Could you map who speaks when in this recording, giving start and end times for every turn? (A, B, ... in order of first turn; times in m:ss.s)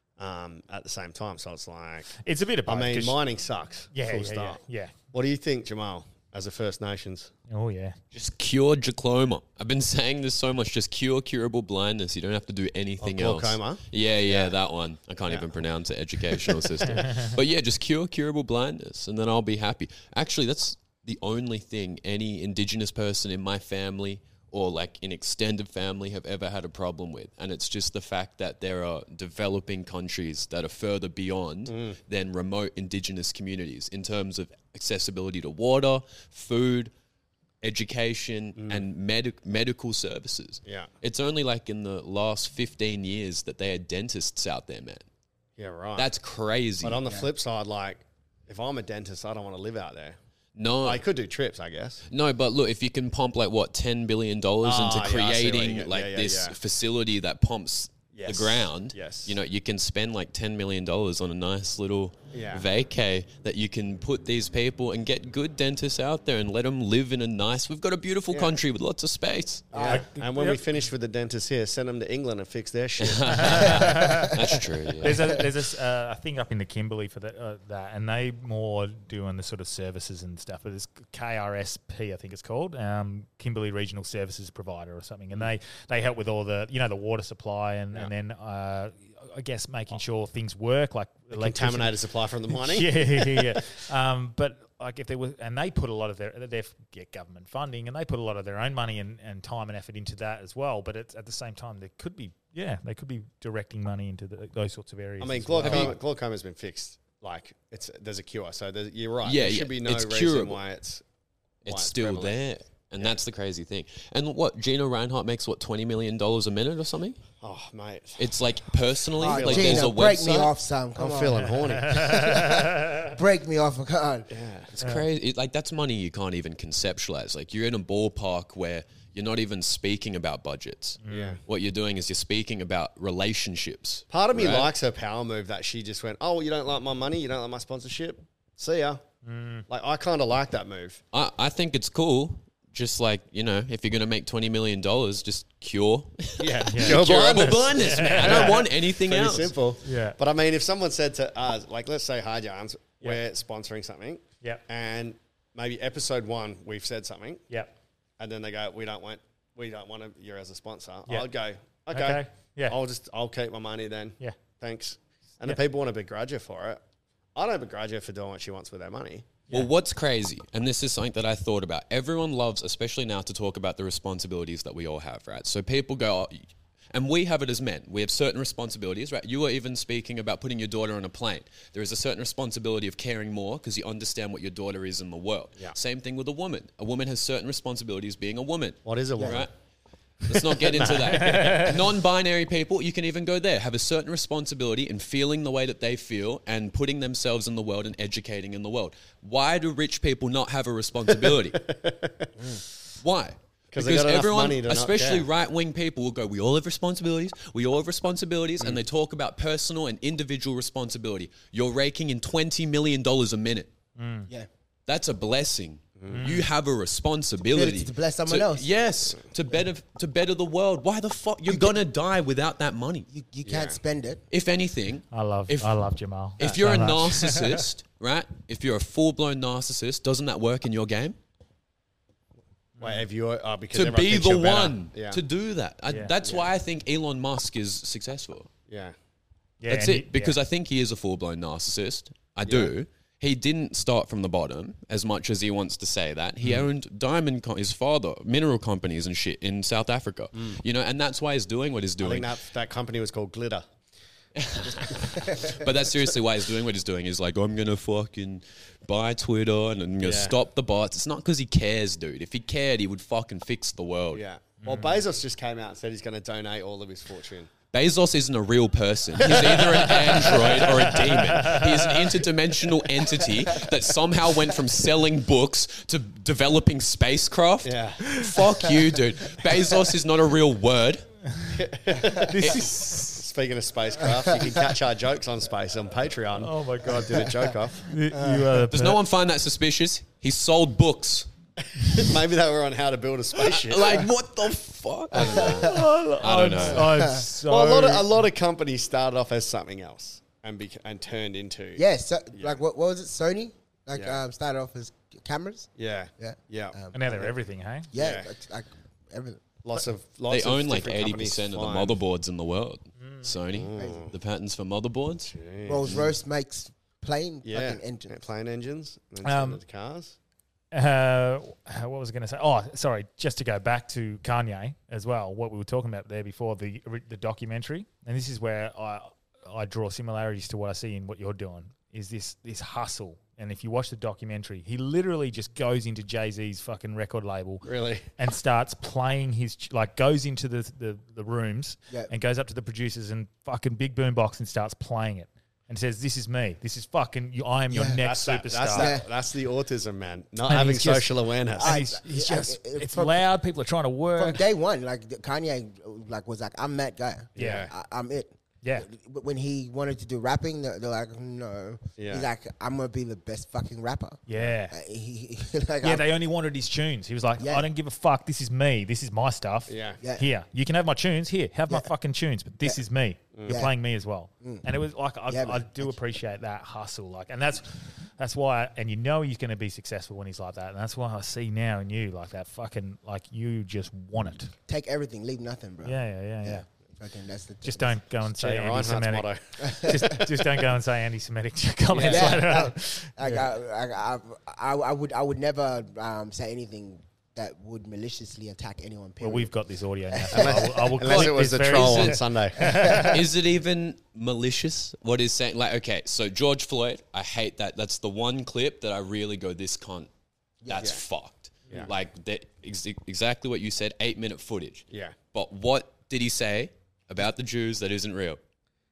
0:00.2-0:04.6 A
0:02.2-0:03.2 B
0:03.9-0:04.9 B
0:05.1-0:07.3 A
0:07.5-0:08.0 B
0:08.1-0:36.9 C
0:13.0-0:14.5 A
0:16.3-0:17.0 A
0:17.0-0:17.3 B
0:31.7-0:32.0 A
0:37.6-0:45.0 C
0:38.6-0:38.8 A
0:40.6-0:40.9 A
0:45.6-0:46.1 A
0:46.0-0:47.0 C
0:46.8-0:50.2 A
0:50.5-0:51.0 C
0:50.8-0:52.0 A
0:52.1-1:09.7 C
0:54.6-0:56.6 A
0:58.1-0:59.4 A
1:02.3-1:02.6 A
1:08.3-1:08.6 A
1:09.7-1:10.0 D
1:09.7-1:13.7 A
1:09.8-1:10.6 B
1:13.0-1:15.2 C
1:13.3-1:14.3 B
1:15.0-1:31.9 B
1:31.3-1:33.6 A
1:32.5-1:46.0 B
1:45.2-1:51.0 A
1:45.6-1:46.0 C
1:49.2-1:50.6 C
1:51.6-1:57.2 C
1:51.6-1:52.4 A
1:57.4-1:58.3 A
1:58.2-2:00.5 C
1:59.2-2:04.3 D
1:59.2-2:00.4 A
2:01.0-2:02.3 A
2:01.8-2:03.1 B
2:04.3-2:04.8 A
2:04.7-2:14.7 C
2:11.0-2:11.4 B
2:11.1-2:11.4 A
2:14.1-2:19.0 A
2:19.2-2:19.6 B
2:19.7-2:21.0 A
2:21.1-2:29.6 C
2:26.4-2:37.4 A
2:26.7-2:28.6 B
2:29.8-2:30.2 B
2:38.2-2:46.8 A
2:41.9-2:42.8 B
2:47.3-2:49.4 A
2:49.5-3:09.5 C
3:08.8-3:09.4 A
3:10.2-3:21.7 C
3:10.6-3:11.6 A
3:11.0-3:11.8 B
3:21.3-3:22.3 A
3:23.0-3:33.7 C
3:23.7-3:25.2 A
3:34.0-3:34.3 B
3:34.9-3:43.1 C
3:36.0-3:36.2 A
3:36.1-3:36.5 B
3:37.4-3:38.7 D
3:41.5-3:41.8 D
3:43.1-3:44.2 D
3:43.4-3:43.8 A
3:44.3-3:45.8 C
3:45.1-3:47.6 B
3:46.4-3:51.2 C
3:52.8-3:53.0 B
3:52.8-3:55.2 A
3:53.7-3:58.5 C
3:55.9-3:56.1 B
3:56.2-3:56.5 A
3:58.7-3:58.9 A
3:59.6-4:00.4 B
3:59.7-4:12.3 C
4:02.4-4:02.7 A
4:12.0-4:13.6 A
4:14.4-4:24.2 C
4:20.0-4:20.4 A
4:24.1-4:27.5 A
4:24.6-4:25.0 B
4:27.7-4:41.1 C
4:29.2-4:30.6 A
4:30.6-4:32.0 B
4:37.6-4:38.2 A
4:38.0-4:38.3 B
4:41.5-4:47.9 A
4:42.1-4:43.2 B
4:42.4-4:42.7 C
4:46.4-4:47.3 B
4:47.8-4:49.0 B
4:48.1-4:48.6 D
4:48.7-4:51.3 C
4:51.6-4:54.1 A
4:53.4-4:57.1 C
4:55.1-4:55.6 A
4:55.6-4:58.1 B
4:56.9-4:57.2 D
4:57.5-5:02.6 A
5:01.8-5:07.3 D
5:03.9-5:04.2 A
5:05.8-5:07.3 A
5:06.9-5:07.9 B
5:07.9-5:09.4 D
5:08.0-5:08.3 A
5:09.6-5:12.0 A
5:10.3-5:15.3 C
5:13.0-5:13.3 B
5:13.5-5:14.1 A
5:13.8-5:14.0 D
5:15.3-5:16.1 A
5:15.6-5:18.1 D
5:17.4-5:20.2 A
5:19.2-5:19.6 B
5:20.7-5:48.9 B
5:37.6-5:38.1 A
5:47.7-5:48.0 D
5:48.0-5:51.8 A
5:48.7-5:49.0 D
5:50.5-5:54.4 B
5:51.6-5:53.2 D
5:54.2-6:06.1 D
5:57.4-5:57.7 A
5:57.4-5:57.7 B
5:58.6-5:58.9 B
6:02.0-6:02.3 A
6:04.3-6:04.8 B
6:05.8-6:24.5 B
6:07.4-6:07.7 D
6:09.7-6:10.0 A
6:13.3-6:13.6 A
6:13.4-6:13.7 D
6:14.4-6:14.6 D
6:15.3-6:16.0 D
6:24.7-6:28.0 D
6:25.8-6:26.6 B
6:27.6-6:33.4 B
6:28.4-6:29.4 A
6:29.6-6:30.4 D
6:31.9-6:32.4 A
6:31.9-6:39.5 D
6:39.2-6:43.2 B
6:40.1-6:40.9 D
6:40.3-6:42.6 A
6:41.1-6:42.2 C
6:42.6-6:43.2 D
6:43.1-6:50.1 C
6:50.6-6:51.0 D
6:50.7-6:58.4 C
6:50.8-6:51.0 A
6:54.9-6:55.2 A